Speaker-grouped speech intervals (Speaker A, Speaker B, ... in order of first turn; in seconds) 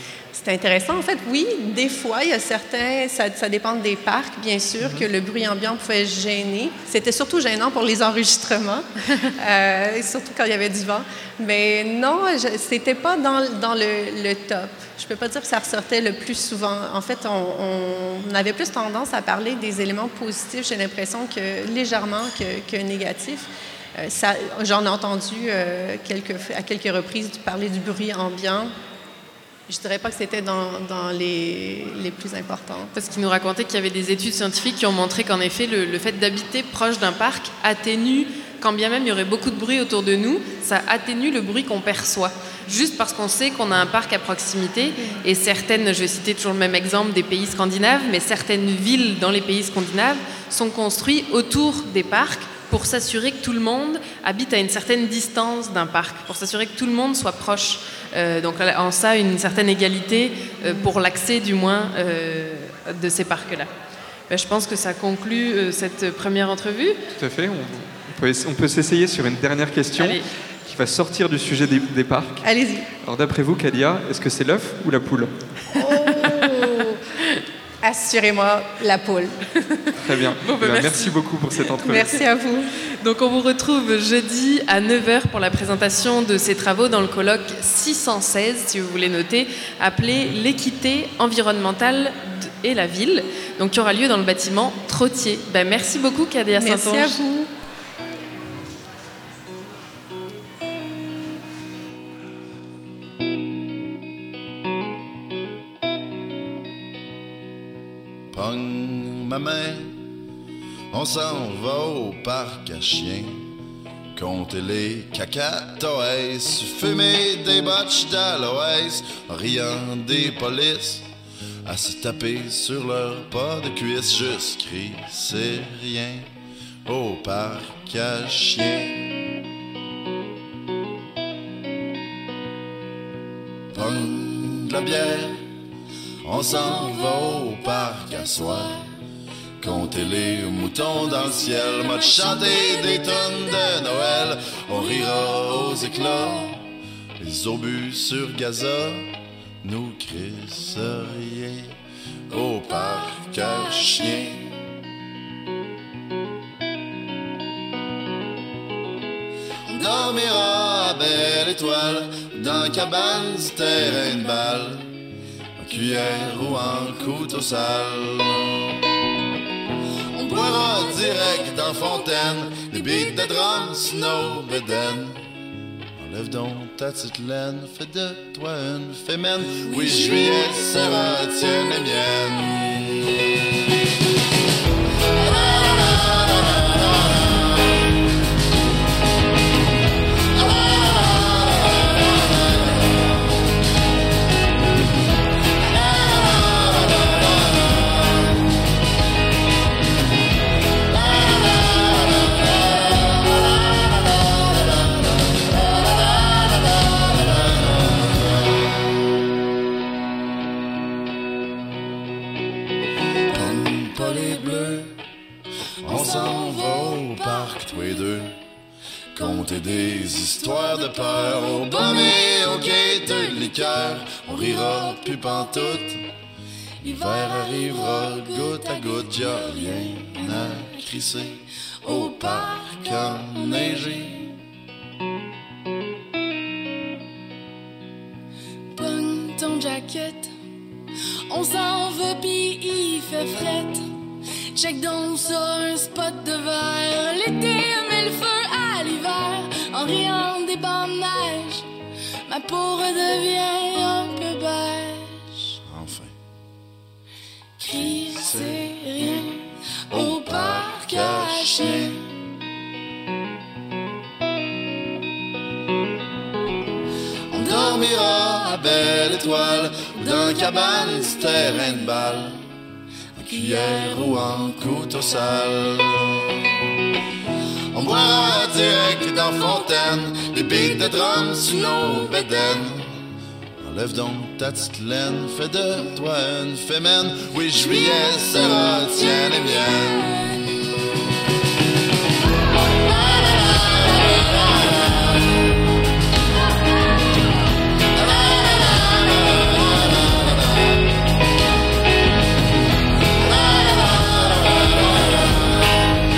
Speaker A: 0.3-8.8, 9.4-28.7, 29.7-32.9, 72.4-72.9, 75.7-77.0, 77.8-79.4, 81.8-82.7, 96.5-97.5
Speaker B: 32.9-63.7, 64.3-67.0, 70.0-70.3, 76.0-76.5, 79.6-81.1, 83.0-97.2
Speaker C: 67.2-72.4, 73.0-75.3, 80.0-82.2
Speaker D: 108.3-110.0, 110.9-113.5, 114.2-121.1, 121.6-126.3, 126.8-129.1, 133.7-135.4, 136.2-138.8, 139.6-146.6, 147.2-149.1, 149.6-151.7, 152.3-154.5, 159.7-164.9, 165.6-168.6, 170.2-175.2, 176.0-183.0, 213.3-214.9, 215.8-218.3, 219.2-226.0, 226.8-234.3, 255.7-256.1, 257.7-259.3, 259.9-262.0, 267.3-272.4, 273.1-276.2, 277.7-282.9, 283.6-290.1
Speaker E: 136.4-138.7, 141.0-146.5, 152.7-154.2, 159.7-160.3, 165.7-167.2, 170.1-174.3, 179.6-181.8, 213.3-214.7, 215.8-218.0, 219.2-225.9, 226.8-231.1, 231.8-234.1, 238.7-240.3, 241.3-243.8, 244.5-251.7, 252.3-255.4, 257.6-261.9, 267.6-268.1, 270.1-271.1, 273.3-275.0, 277.9-282.5, 287.7-289.9